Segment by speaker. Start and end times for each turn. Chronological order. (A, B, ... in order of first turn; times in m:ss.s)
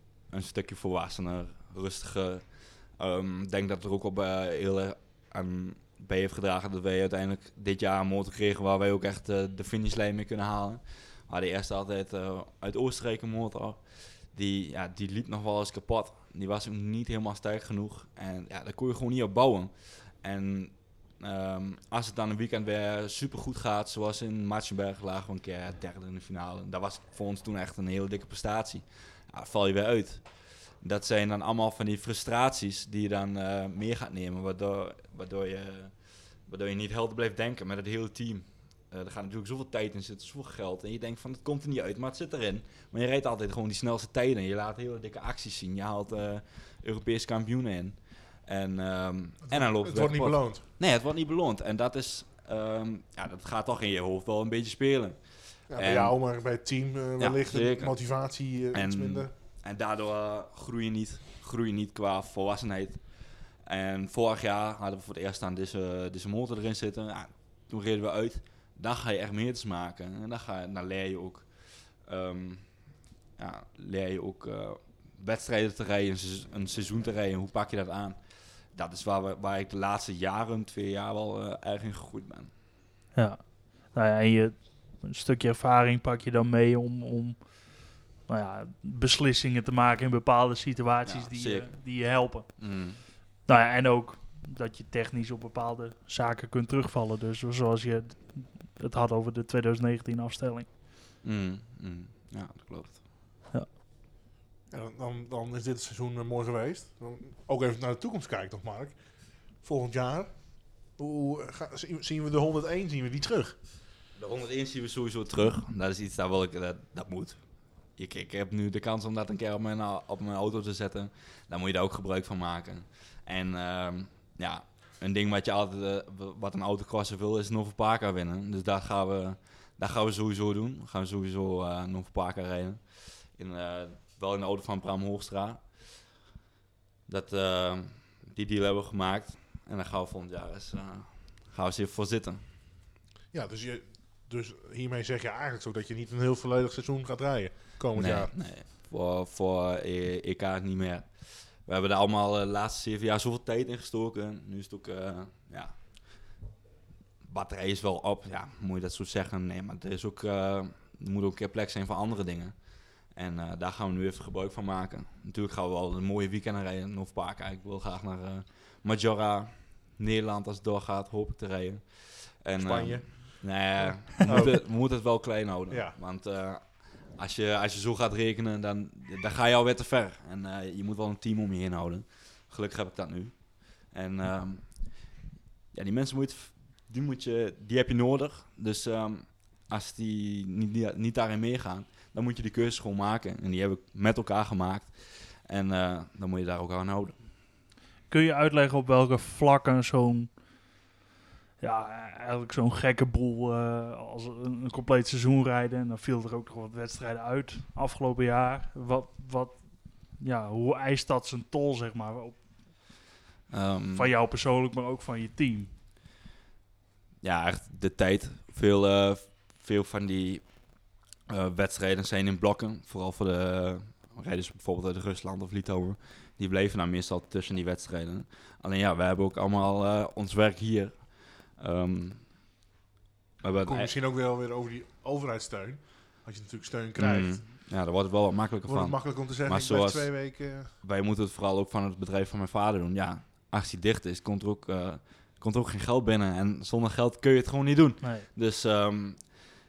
0:00.3-0:56.2 A
0:49.5-0:50.6 B
0:55.7-0:59.3 B
0:57.2-0:58.0 A
0:58.7-1:12.8 A
1:13.4-1:18.2 A
1:18.7-1:22.5 A
1:23.1-1:32.7 C
1:31.0-1:31.8 A
1:32.6-1:33.0 A
1:33.4-1:40.7 C
1:41.2-1:43.0 A
1:44.7-1:49.0 B
1:49.6-1:50.3 B
1:50.9-1:53.6 B
1:54.2-1:57.4 A
1:58.0-2:15.8 A
2:17.1-2:22.4 A
2:23.3-2:28.3 B
2:27.9-2:36.0 A
2:37.2-3:04.9 A
2:52.6-2:54.6 B
2:55.7-2:56.0 B
3:05.7-3:17.2 A
3:18.1-3:20.3 C
3:21.6-3:32.4 C
3:33.5-3:34.1 A
3:33.9-3:35.7 C
3:37.2-3:40.5 A
3:41.3-3:52.3 A
3:53.4-3:53.9 A
3:53.6-3:57.4 B
3:57.0-4:00.3 A
3:58.6-4:00.7 B
4:00.8-4:09.4 A
4:08.0-4:08.3 C